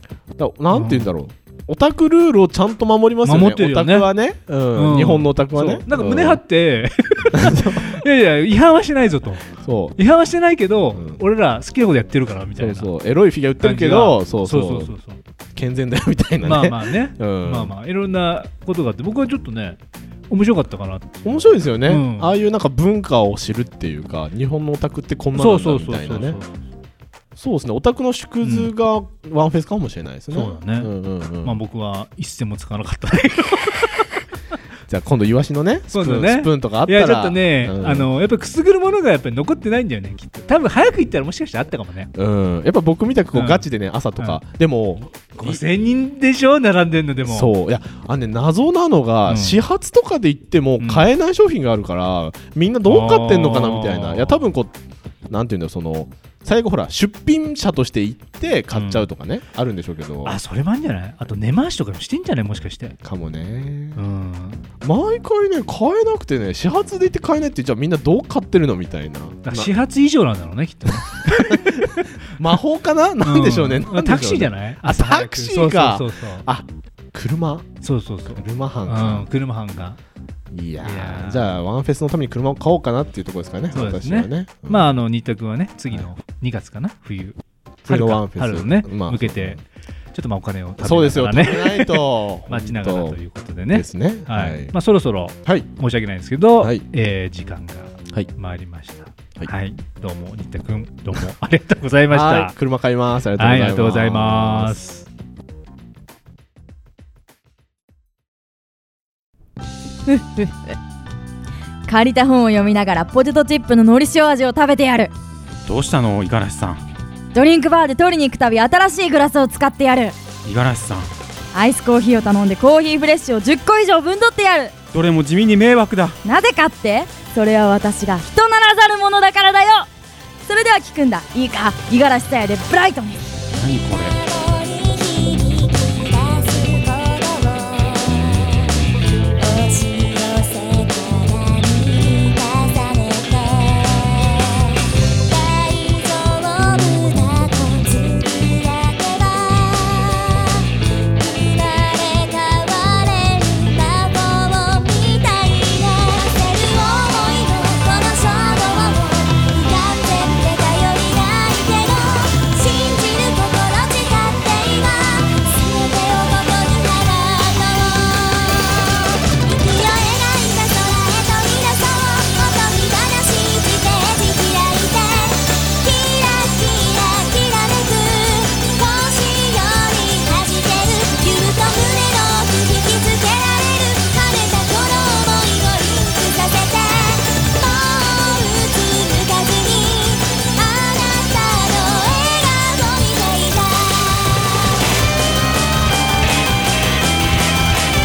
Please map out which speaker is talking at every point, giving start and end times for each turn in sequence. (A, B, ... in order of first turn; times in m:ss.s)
0:00.4-0:06.4 A
0:00.7-0:01.1 B
0:03.2-0:04.1 B
0:04.7-0:12.9 B
0:07.3-0:08.0 A
0:09.6-0:10.0 A
0:10.9-0:11.2 A
0:12.6-0:14.9 A
0:13.6-0:15.2 B
0:15.5-0:17.7 A
0:16.4-0:22.3 B
0:21.2-0:26.4 A
0:25.3-0:26.5 B
0:27.4-0:31.6 A
0:28.4-0:28.7 B
0:30.3-0:30.9 B
0:31.4-0:34.2 B
0:34.9-0:38.1 A
0:35.9-0:42.1 B
0:42.1-0:45.6 A
0:43.3-0:43.6 B
0:45.4-0:47.5 B
0:47.2-0:54.7 A
0:49.3-0:49.6 B
0:50.8-0:51.1 B
0:52.8-0:54.5 B
0:55.3-1:00.4 A
0:58.7-0:59.1 B
1:00.2-1:03.0 B
1:03.0-1:04.0 A
1:04.0-1:04.6 B
1:04.8-1:09.7 A
1:09.4-1:12.0 B
1:11.0-1:17.7 A
1:13.2-1:16.4 B
1:17.8-1:20.0 B
1:18.3-1:19.3 A
1:20.5-1:24.9 A
1:20.8-1:21.5 B
1:23.7-1:29.6 B
1:27.8-1:29.6 A
1:30.1-1:42.5 B
1:30.8-1:33.2 A
1:33.7-1:34.7 A
1:36.6-1:36.8 A
1:42.1-1:44.8 A
1:43.4-1:45.0 B
1:50.0-1:50.8 C
1:51.9-1:55.1 C
1:55.6-1:56.8 D
1:57.3-2:00.2 C
2:00.4-2:01.1 D
2:01.5-2:04.7 C
2:04.9-2:06.2 D
2:06.2-2:09.9 C
2:10.4-2:13.2 C
2:13.5-2:14.2 D
2:13.9-2:18.8 E
2:19.4-3:14.6 E